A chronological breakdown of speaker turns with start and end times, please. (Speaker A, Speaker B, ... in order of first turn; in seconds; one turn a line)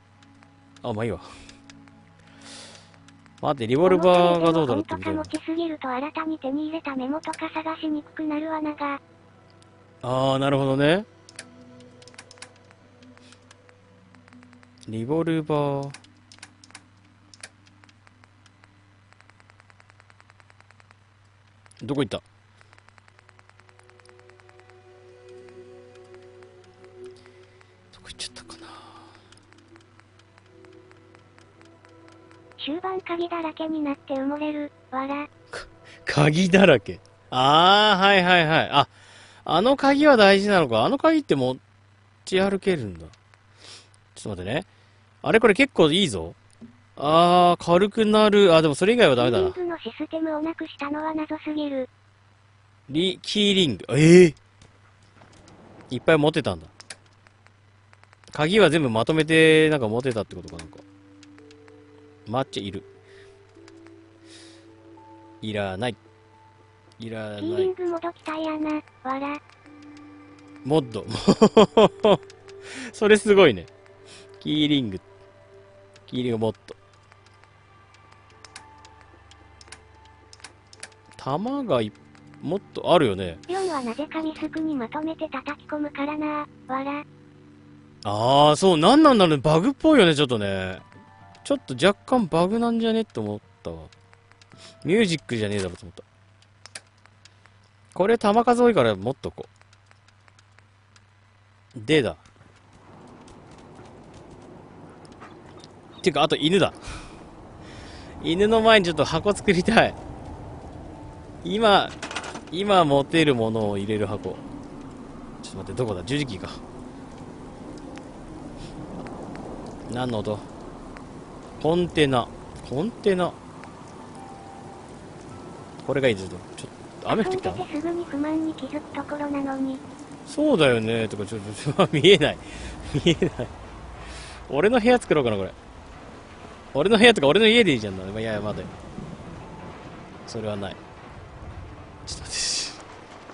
Speaker A: 0.8-1.3
Speaker A: 3.4-5.3
Speaker B: 3.8-9.0
Speaker A: 10.0-11.1
Speaker A: 14.9-16.0
Speaker A: 21.8-22.2
Speaker A: 27.9-29.1
Speaker B: 32.6-35.3
Speaker A: 35.5-38.9
Speaker A: 39.4-41.6
Speaker A: 42.2-43.1
Speaker A: 44.1-44.7
Speaker A: 45.2-46.4
Speaker A: 47.0-49.6
Speaker B: 49.2-51.9
Speaker A: 52.9-54.4
Speaker A: 55.9-56.7
Speaker A: 58.3-60.8
Speaker A: 62.3-62.9
Speaker A: 65.4-66.0
Speaker A: 67.0-67.7
Speaker B: 67.4-69.4
Speaker A: 70.6-72.2
Speaker A: 72.7-73.7
Speaker A: 74.4-75.0
Speaker A: 76.1-76.8
Speaker A: 81.2-83.4
Speaker B: 83.5-87.0
Speaker A: 88.0-90.8
Speaker A: 91.4-93.9
Speaker A: 94.8-96.0
Speaker A: 97.9-99.5
Speaker A: 101.7-102.2
Speaker A: 106.0-106.8
Speaker A: 108.2-110.0
Speaker A: 111.4-111.9
Speaker A: 112.5-114.4
Speaker A: 115.4-116.6
Speaker A: 119.9-120.5
Speaker A: 121.6-123.4
Speaker A: 125.8-127.6
Speaker B: 127.1-129.8
Speaker A: 130.3-133.5
Speaker A: 134.5-135.5
Speaker A: 136.7-138.7
Speaker A: 140.2-140.8
Speaker A: 142.0-142.8